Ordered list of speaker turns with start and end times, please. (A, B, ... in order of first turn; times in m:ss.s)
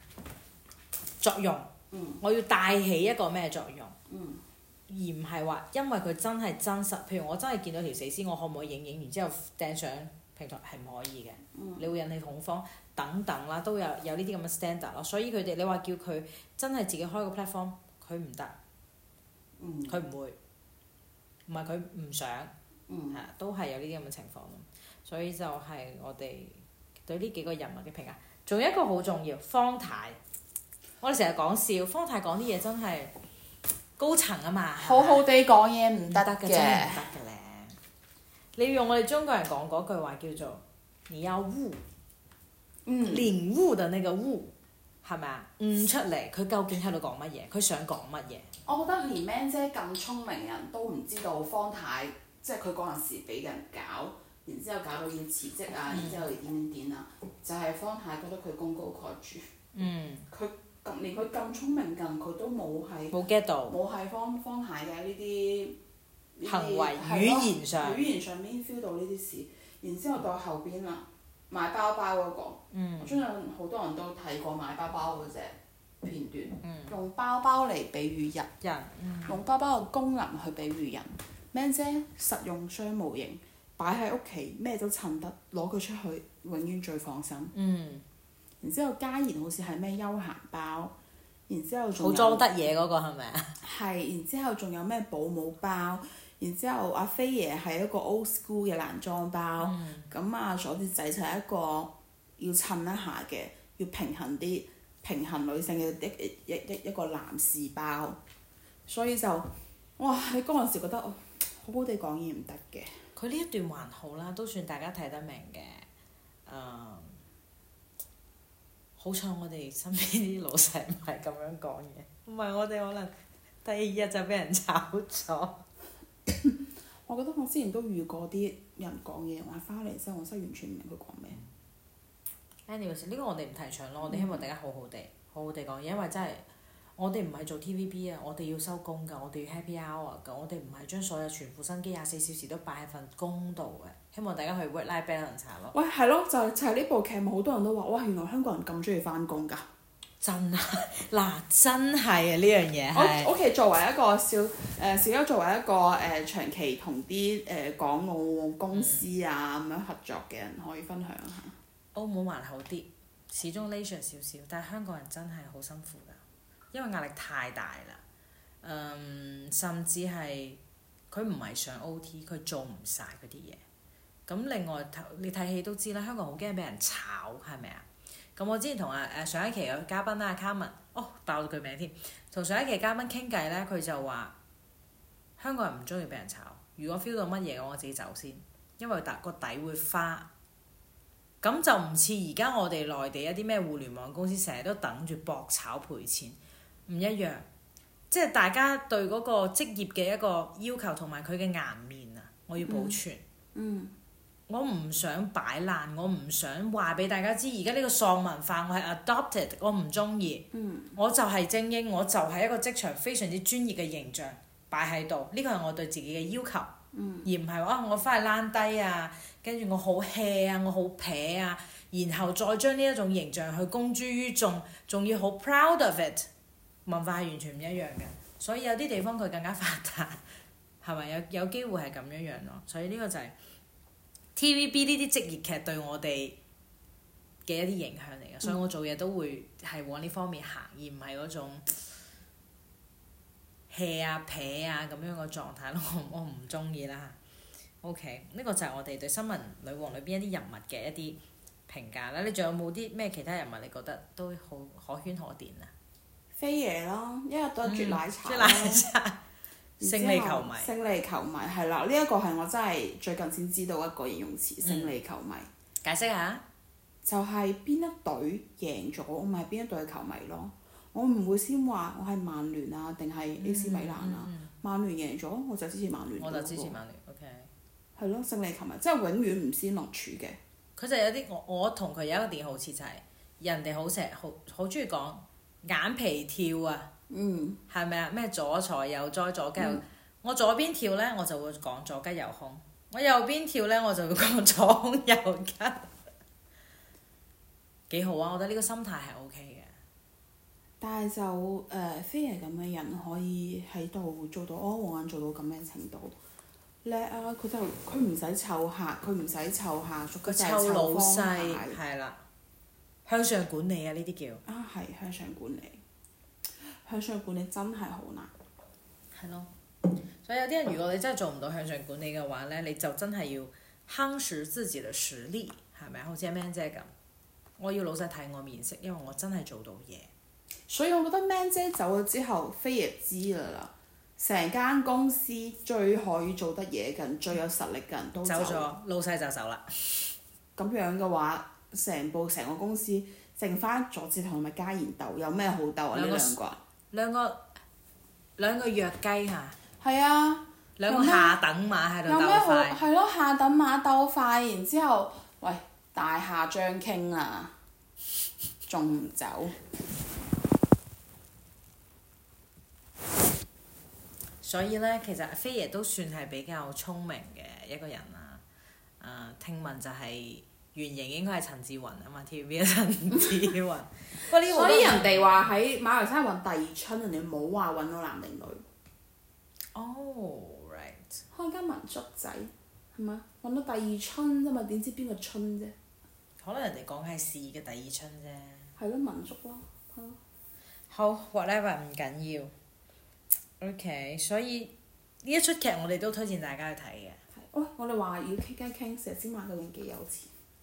0:01.2-0:04.0 A
0:01.9-0:02.2 B
0:04.1-0:04.4 B
0:04.9-0:18.6 A
0:11.5-0:11.8 B
0:19.6-0:20.0 B
0:19.9-0:20.4 A
0:21.5-0:22.5 A
0:22.9-0:23.2 B
0:23.1-0:30.2 A
0:31.0-0:33.1 A
0:34.0-0:35.2 A
0:34.8-0:37.0 B
0:36.1-0:37.8 A
0:38.6-0:41.8 A
0:42.8-0:43.3 B
0:43.0-0:48.5 A
0:48.6-0:59.4 B
0:55.9-0:56.2 A
0:59.7-1:00.3 A
1:00.3-1:03.2 B
1:03.1-1:03.8 A
1:03.7-1:05.8 B
1:06.4-1:18.5 B
1:06.4-1:08.0 A
1:12.7-1:13.2 A
1:16.6-1:17.0 A
1:18.6-1:19.4 A
1:19.3-1:27.5 B
1:27.5-1:28.0 A
1:28.6-1:30.9 B
1:31.5-1:32.5 B
1:32.0-1:33.6 A
1:33.6-1:48.2 B
1:39.6-1:40.1 A
1:48.9-1:52.9 B
1:53.2-1:55.9 A
1:56.4-1:57.2 A
1:59.0-2:05.6 A
2:06.3-2:11.4 B
2:12.7-2:16.4 A
2:14.1-2:14.4 B
2:17.0-2:25.7 A
2:25.7-2:29.6 B
2:30.2-2:33.3 A
2:32.9-2:41.6 B
2:38.7-2:39.1 A
2:41.9-2:46.2 A
2:46.7-2:48.0 A
2:48.6-2:53.6 A
2:54.3-3:04.3 A
3:05.4-3:10.3 A
3:11.4-3:17.5 A
3:18.1-3:23.2 A
3:22.6-3:23.0 B
3:23.5-3:23.9 B
3:24.5-3:46.3 A
3:30.5-3:30.9 B
3:36.9-3:37.3 B
3:46.8-3:50.2 A
3:50.8-3:53.3 A
3:54.3-3:56.4 A
3:57.4-4:01.8 A
4:03.7-4:07.2 A
4:07.8-4:15.7 A
4:16.3-4:18.9 B
4:17.6-4:19.2 A
4:19.8-4:25.5 B
4:19.8-4:20.7 A
4:24.6-4:24.9 A
4:25.8-4:26.4 A
4:27.0-4:36.8 B
4:33.4-4:34.5 A
4:36.2-4:37.5 A
4:38.0-4:40.4 B
4:40.8-4:46.9 A
4:47.1-4:47.6 B
4:47.7-4:55.9 A
4:57.9-4:59.7 A
5:00.8-5:06.1 B
5:06.8-5:11.8 B
5:10.2-5:12.2 A
5:13.0-5:14.4 A
5:14.4-5:15.8 B
5:16.6-5:18.3 B
5:19.1-5:19.5 A
5:20.2-5:26.9 A
5:27.6-5:30.1 A
5:30.7-5:38.7 B
5:38.2-5:40.1 A
5:40.6-5:46.6 B
5:45.9-5:46.4 A
5:46.9-5:47.4 A
5:48.4-5:49.6 A
5:49.8-5:51.4 B
5:50.8-5:52.8 A
5:52.0-5:57.5 B
5:58.6-5:59.6 B
6:04.4-6:08.4 A
6:09.0-6:15.4 A
6:14.2-6:18.6 B
6:19.7-6:21.2 A
6:21.3-6:25.7 B
6:26.4-6:28.7 A
6:28.8-6:30.2 B
6:30.9-6:32.5 A
6:33.6-6:37.2 A
6:37.3-6:40.3 B